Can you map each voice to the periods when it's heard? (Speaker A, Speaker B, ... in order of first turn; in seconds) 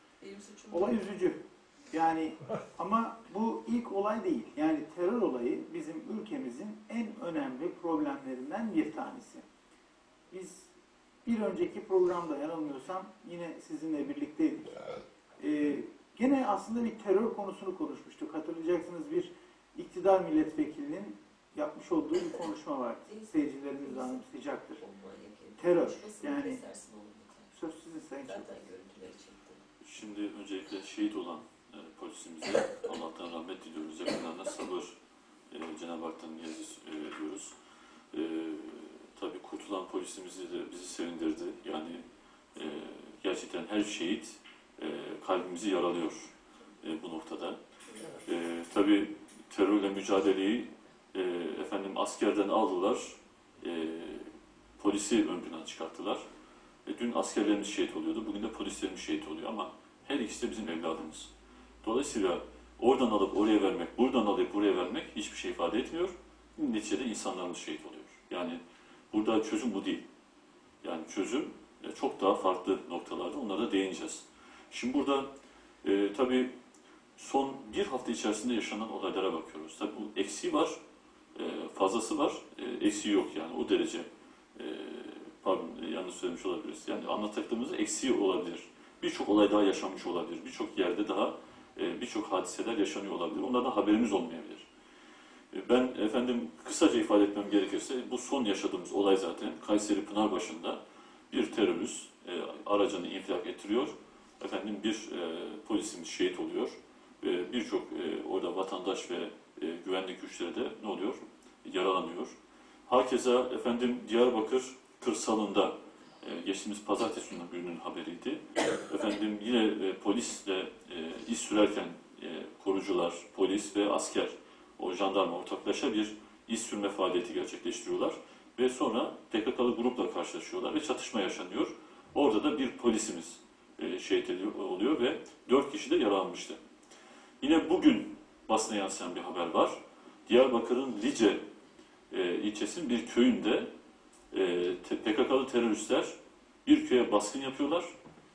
Speaker A: 0.2-0.9, 23.8-24.1, 24.9-27.5, 28.3-29.6
Speaker B: 0.7-1.4, 1.9-9.4, 10.3-10.7, 11.2-14.7, 15.4-24.9, 25.6-26.6, 27.5-28.6
Speaker C: 29.8-35.0, 35.5-37.5, 38.1-42.0, 42.5-46.3, 46.8-47.6, 48.2-56.2, 56.9-61.3, 61.8-70.0, 70.8-75.3, 75.8-76.5, 77.2-80.8, 81.4-94.7, 95.5-112.3, 112.9-136.6, 137.4-141.4, 142.1-143.7, 144.3-147.9